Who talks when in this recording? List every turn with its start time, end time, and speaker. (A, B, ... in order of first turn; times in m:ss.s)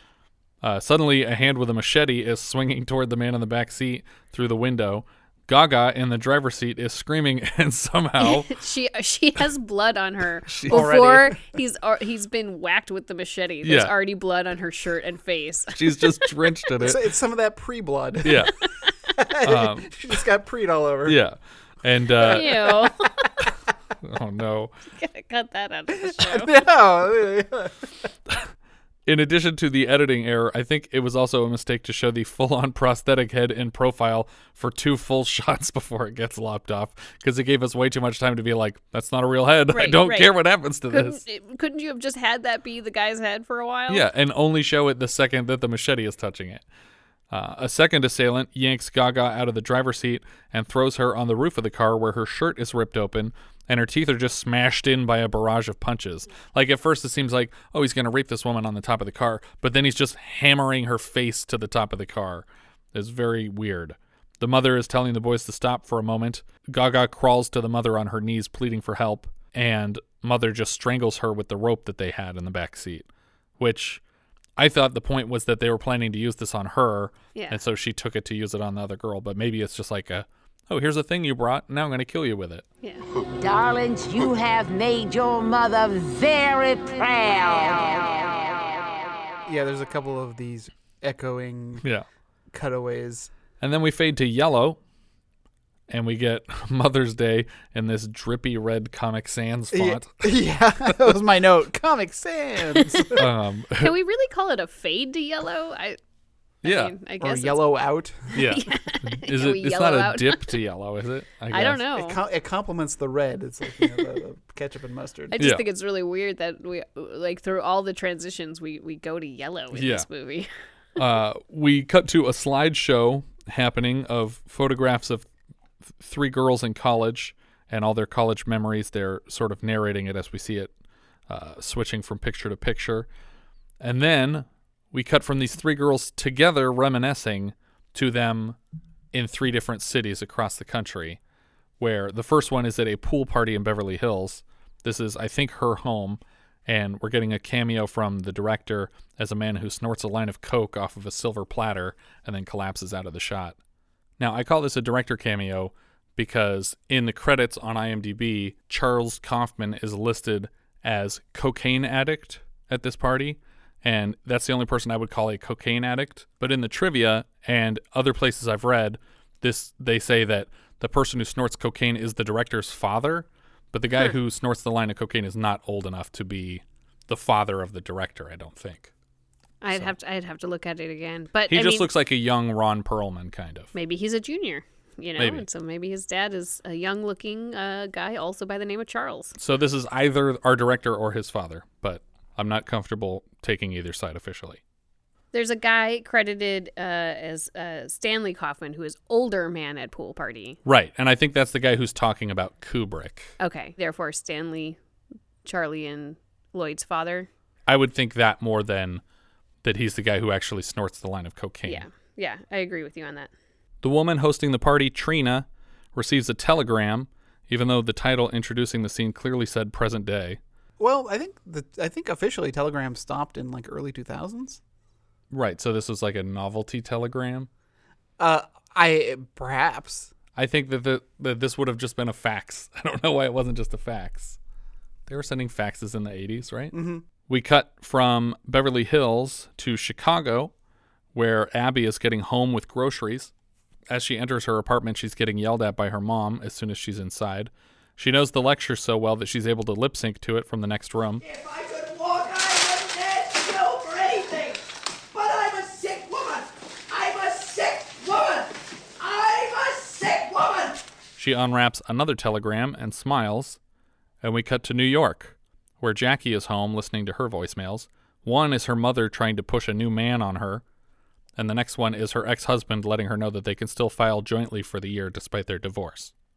0:00.6-0:08.6 A
0:08.2-0:16.3 B
0:10.5-0:11.0 A
0:10.7-0:11.4 C
0:13.6-0:13.9 A
0:15.8-0:17.0 A
0:16.8-0:18.5 C
0:18.2-0:18.5 A
0:19.2-0:21.2 C
0:19.4-0:19.9 A
0:21.0-0:22.7 A
0:22.2-0:22.9 C
0:22.3-0:23.1 B
0:24.0-0:24.7 A
0:25.0-0:26.5 B
0:26.1-0:27.9 C
0:29.1-0:41.2 A
0:39.7-0:40.4 B
0:40.9-0:44.1 B
0:43.9-0:46.6 A
0:47.3-1:13.1 A
1:13.6-1:14.0 A
1:14.6-1:22.7 A
1:23.4-1:28.3 D
1:29.5-1:31.8 C
1:32.5-1:33.3 C
1:33.6-1:34.8 A
1:35.9-1:40.3 A
1:39.7-1:43.2 C
1:43.2-1:43.9 A
1:43.8-1:46.0 B
1:46.6-1:47.6 B
1:46.6-1:46.9 A
1:47.2-1:48.4 C
1:48.4-1:50.6 B
1:48.4-1:51.8 A
1:51.5-1:52.2 B
1:51.9-1:55.4 C
1:55.3-2:00.5 B
1:55.4-1:55.6 A
1:59.7-2:00.1 A
2:01.0-2:05.3 A
2:06.0-2:10.7 A
2:11.3-2:13.1 A
2:13.8-2:18.6 A
2:19.1-2:21.2 A
2:21.8-2:33.6 A
2:34.2-2:58.9 A
2:59.6-3:01.9 B
3:01.5-3:03.7 A
3:03.7-3:09.4 B
3:05.2-3:05.4 A
3:09.4-3:14.6 A
3:15.3-3:20.6 B
3:20.6-3:23.3 A
3:23.4-3:24.8 B
3:25.4-3:27.3 B
3:27.7-3:29.0 A
3:29.6-3:31.9 A
3:31.7-3:33.3 B
3:33.8-3:40.4 A
3:40.8-3:44.6 C
3:45.3-3:47.5 A
3:48.2-3:50.1 C
3:50.4-3:54.4 A
3:55.1-3:56.8 A
3:56.7-3:57.1 C
3:57.3-4:00.5 A
4:01.2-4:03.3 A
4:03.9-4:11.2 A
4:11.2-4:14.6 E
4:15.1-4:20.8 E
4:21.2-4:23.6 A
4:24.2-4:30.6 A
4:31.4-4:36.1 A